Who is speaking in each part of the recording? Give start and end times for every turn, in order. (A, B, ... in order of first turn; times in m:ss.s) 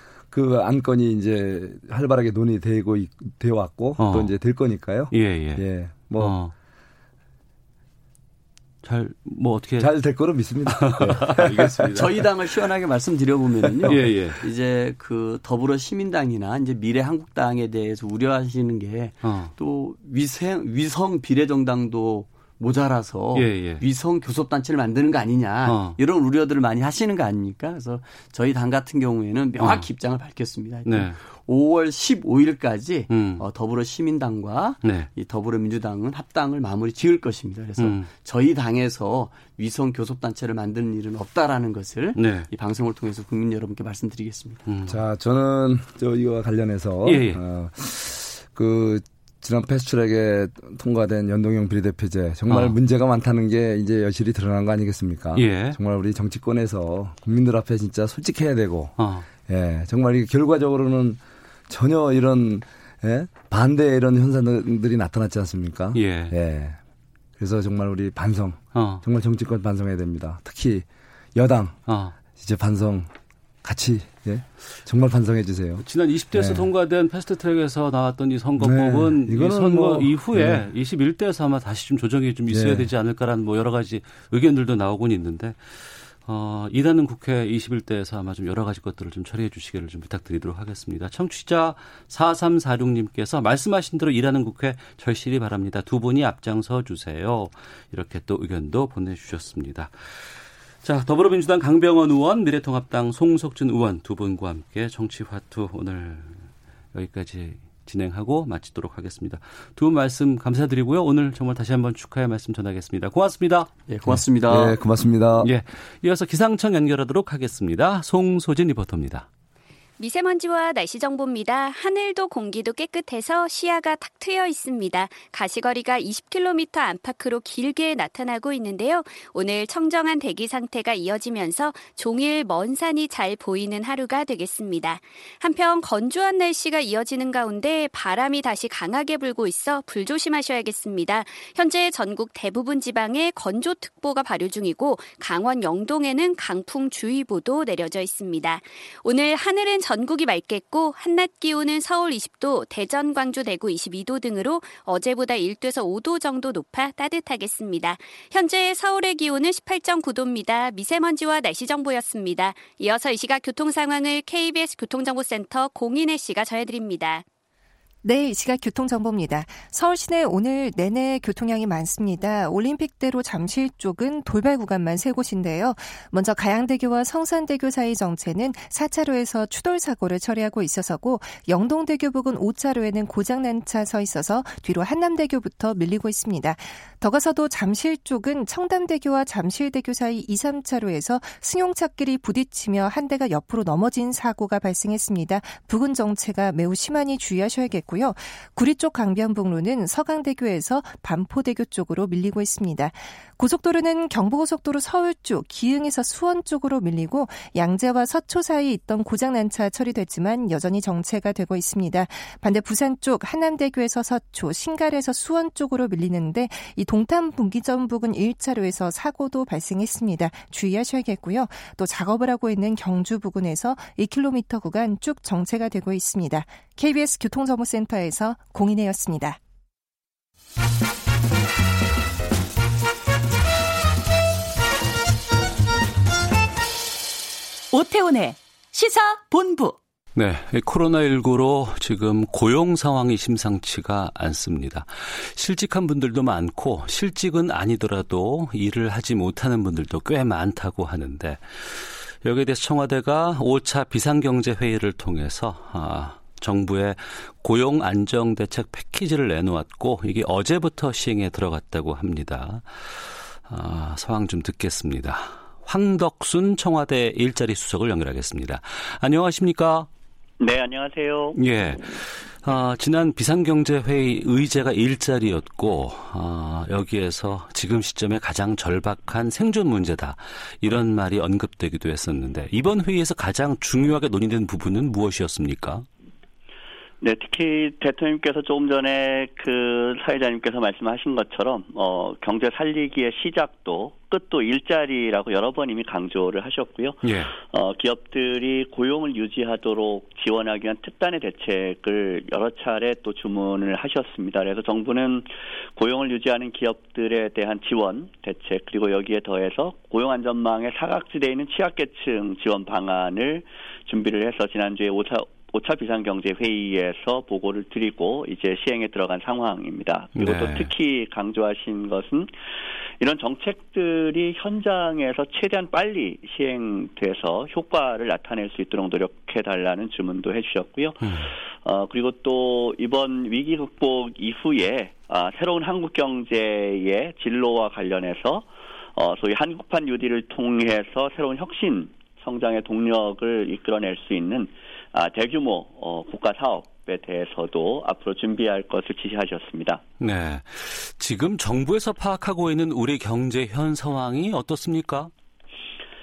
0:00.3-0:06.4 A
0:04.0-0:04.3 B
0:05.1-0:05.6 B
0:06.2-0:06.5 B
0:08.8-0:09.9 B
0:09.8-0:11.9 A
0:10.6-0:12.1 B
0:11.7-0:44.6 C
0:13.9-0:14.4 B
0:19.2-0:19.5 B
0:23.3-0:23.8 B
0:25.6-0:26.0 B
0:29.6-0:29.9 B
0:30.8-0:31.2 B
0:33.1-0:33.4 B
0:34.8-0:35.1 B
0:37.8-0:38.1 B
0:42.2-0:42.5 B
0:44.7-0:45.0 B
0:44.9-1:06.8 A
0:47.0-0:47.4 B
0:52.5-0:52.8 B
0:55.3-0:55.8 B
0:59.0-0:59.3 B
1:05.9-1:06.4 B
1:07.4-1:11.8 A
1:08.7-1:09.0 B
1:11.9-1:12.1 B
1:12.3-1:13.1 A
1:13.6-1:16.7 A
1:15.8-1:53.7 B
1:18.6-1:20.7 A
1:22.5-1:22.9 A
1:53.9-1:54.8 C
1:54.4-1:55.5 A
1:55.4-1:59.3 B
2:00.0-2:47.2 D
2:48.0-3:49.4 E
3:57.7-3:59.8 F
4:00.1-4:29.9 B
4:30.4-4:31.4 G
4:31.4-4:45.9 B
4:47.0-5:22.3 G
4:57.0-4:57.3 B
5:20.2-5:20.7 B
5:23.0-5:49.8 G
5:31.0-5:31.3 B
5:50.0-5:55.1 B